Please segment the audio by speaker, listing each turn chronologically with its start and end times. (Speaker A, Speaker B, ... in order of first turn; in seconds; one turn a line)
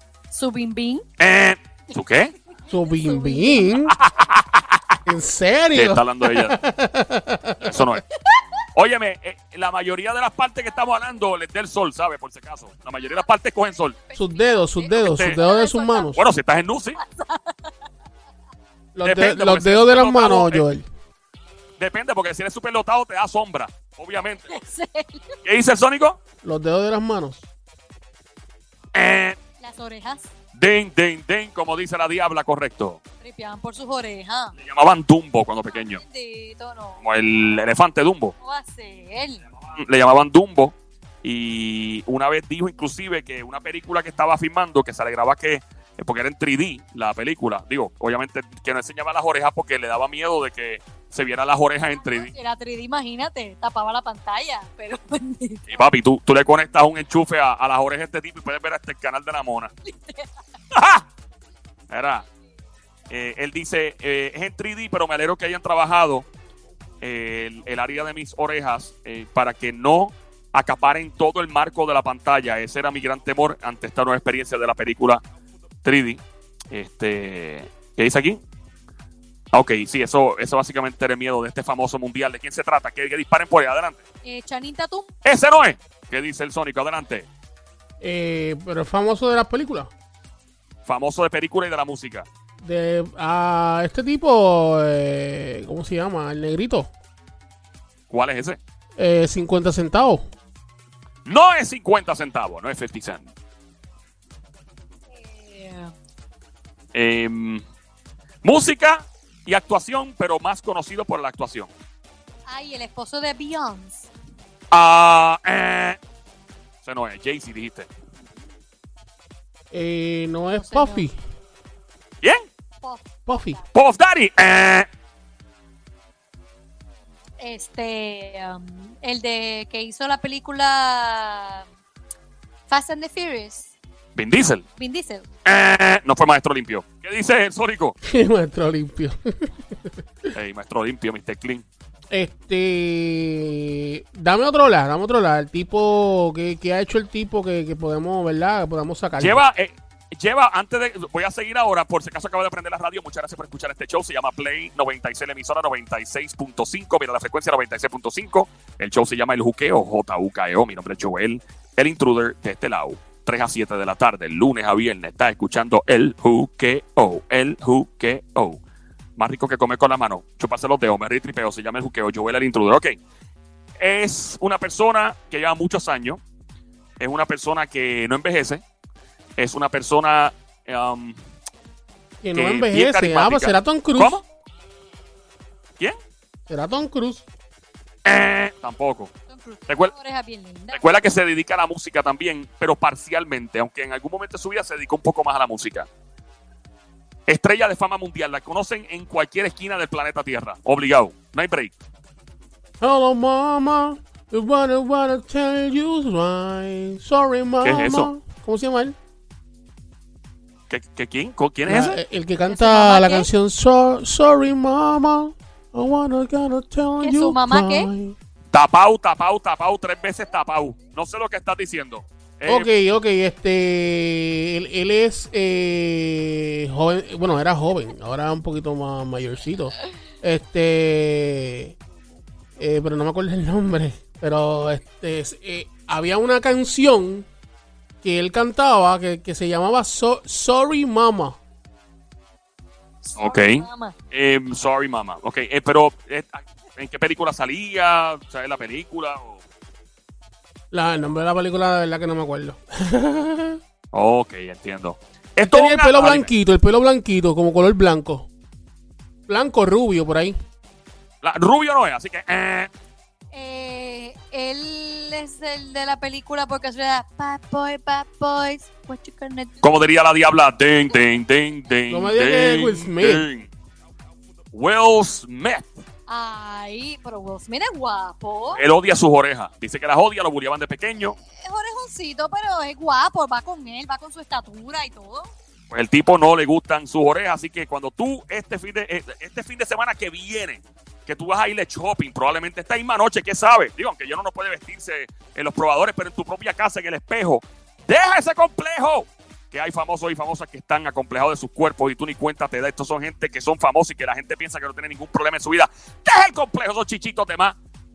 Speaker A: 0.3-1.0
Speaker B: 1.2-2.3
Speaker A: 2.5-3.8
Speaker C: 2.7-4.0
Speaker B: 3.9-4.7
Speaker C: 5.1-7.8
Speaker B: 5.7-6.6
Speaker B: 7.6-8.0
Speaker B: 8.8-14.0
Speaker A: 13.7-16.2
Speaker C: 14.2-16.2
Speaker B: 14.9-15.4
Speaker B: 16.1-17.0
Speaker A: 17.0-17.7
Speaker C: 18.9-20.9
Speaker B: 19.0-20.7
Speaker B: 21.8-24.6
Speaker A: 24.5-25.4
Speaker B: 25.4-26.2
Speaker C: 26.4-27.5
Speaker B: 28.9-29.4
Speaker A: 29.6-30.3
Speaker B: 30.6-33.0
Speaker A: 33.2-34.5
Speaker B: 34.6-36.0
Speaker A: 35.7-37.0
Speaker B: 37.0-38.4
Speaker A: 38.4-39.4
Speaker B: 39.7-52.3
Speaker A: 52.0-55.8
Speaker B: 55.7-59.7
Speaker A: 59.9-60.3
Speaker B: 60.7-61.0
Speaker B: 61.9-62.3
Speaker B: 63.1-66.3
Speaker B: 67.0-75.2
Speaker B: 75.8-78.4
Speaker B: 79.5-84.0
Speaker A: 84.2-85.1
Speaker B: 85.2-87.3
Speaker C: 88.0-89.9
Speaker B: 90.9-92.3
Speaker C: 92.6-96.9
Speaker B: 98.1-98.6
Speaker C: 99.0-100.2
Speaker B: 101.3-103.3
Speaker A: 105.1-105.9
Speaker B: 106.9-107.6
Speaker B: 108.4-111.7
Speaker A: 112.5-114.1
Speaker B: 114.7-116.0
Speaker B: 116.8-117.9
Speaker C: 119.7-121.2
Speaker A: 120.5-121.0
Speaker A: 122.8-123.6
Speaker C: 123.3-123.6
Speaker B: 123.7-124.9
Speaker A: 127.4-131.7
Speaker A: 132.7-133.7
Speaker B: 134.2-134.6
Speaker A: 134.8-135.3
Speaker B: 135.4-137.9
Speaker C: 138.0-139.7
Speaker B: 140.3-141.7
Speaker C: 142.1-149.4
Speaker B: 149.2-168.6
Speaker B: 169.2-173.0
Speaker B: 173.8-176.2
Speaker B: 177.0-178.6
Speaker B: 179.4-181.2
Speaker C: 182.2-184.2
Speaker B: 182.3-184.2
Speaker C: 186.5-187.3
Speaker B: 188.1-189.1
Speaker A: 189.3-190.8
Speaker B: 189.7-189.9
Speaker B: 190.7-195.9
Speaker B: 197.3-201.7
Speaker C: 202.8-209.0
Speaker B: 207.6-208.1
Speaker B: 210.7-212.0
Speaker C: 211.7-218.2
Speaker A: 212.5-213.3
Speaker A: 217.0-217.9
Speaker B: 218.5-222.7
Speaker C: 222.5-231.8
Speaker C: 232.6-237.3
Speaker C: 238.0-241.4
Speaker A: 243.0-243.9
Speaker B: 243.2-249.4
Speaker C: 250.7-253.6
Speaker B: 253.9-256.3
Speaker C: 255.4-258.3
Speaker C: 259.3-260.4
Speaker B: 261.2-262.7
Speaker A: 263.3-269.6
Speaker B: 269.6-273.5
Speaker C: 271.9-273.3
Speaker B: 274.5-275.7
Speaker A: 276.1-278.6
Speaker B: 278.5-281.2
Speaker A: 281.2-285.3
Speaker B: 285.7-307.6